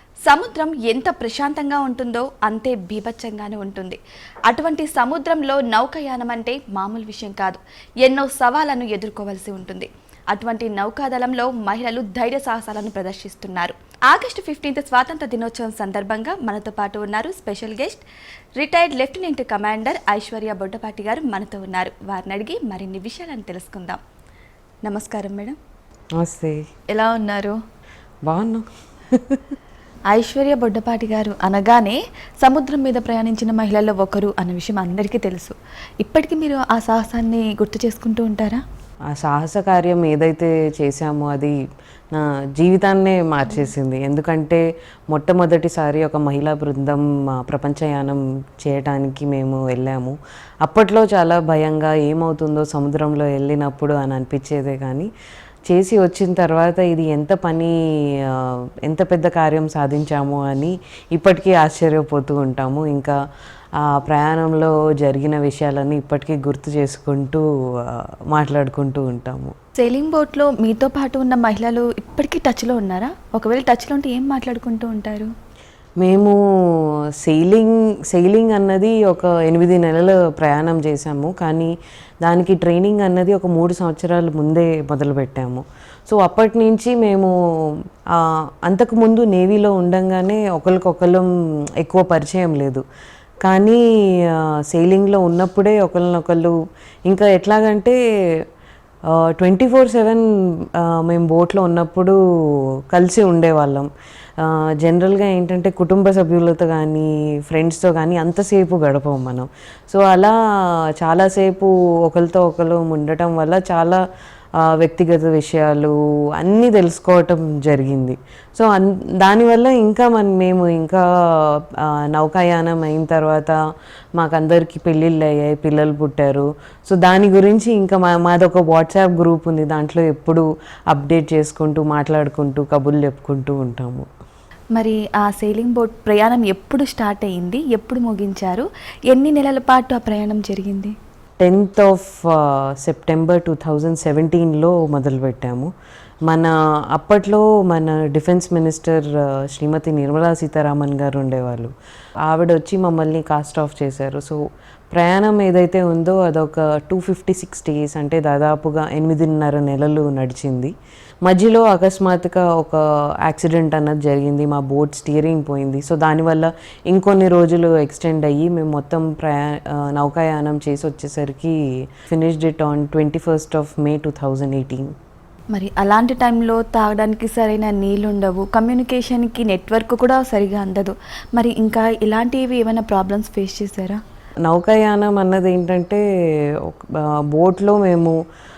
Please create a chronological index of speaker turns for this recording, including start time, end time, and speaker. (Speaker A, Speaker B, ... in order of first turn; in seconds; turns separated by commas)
Speaker A: 0.2-18.0, Speaker A: 18.6-24.0, Speaker A: 24.8-25.6, Speaker B: 26.2-26.7, Speaker A: 26.9-27.6, Speaker B: 28.2-29.4, Speaker A: 30.1-38.6, Speaker B: 39.1-41.6, Speaker B: 42.1-55.1, Speaker B: 55.7-63.1, Speaker B: 63.8-69.5, Speaker A: 69.8-75.3, Speaker B: 76.0-91.3, Speaker B: 91.8-92.8, Speaker B: 93.4-96.5, Speaker B: 97.1-98.4, Speaker B: 99.1-114.0, Speaker B: 114.6-123.6, Speaker B: 124.2-134.1, Speaker A: 134.7-140.9, Speaker B: 141.4-145.7, Speaker B: 146.3-151.7, Speaker B: 152.2-160.7, Speaker B: 161.2-174.9, Speaker A: 175.5-184.0, Speaker B: 184.4-188.2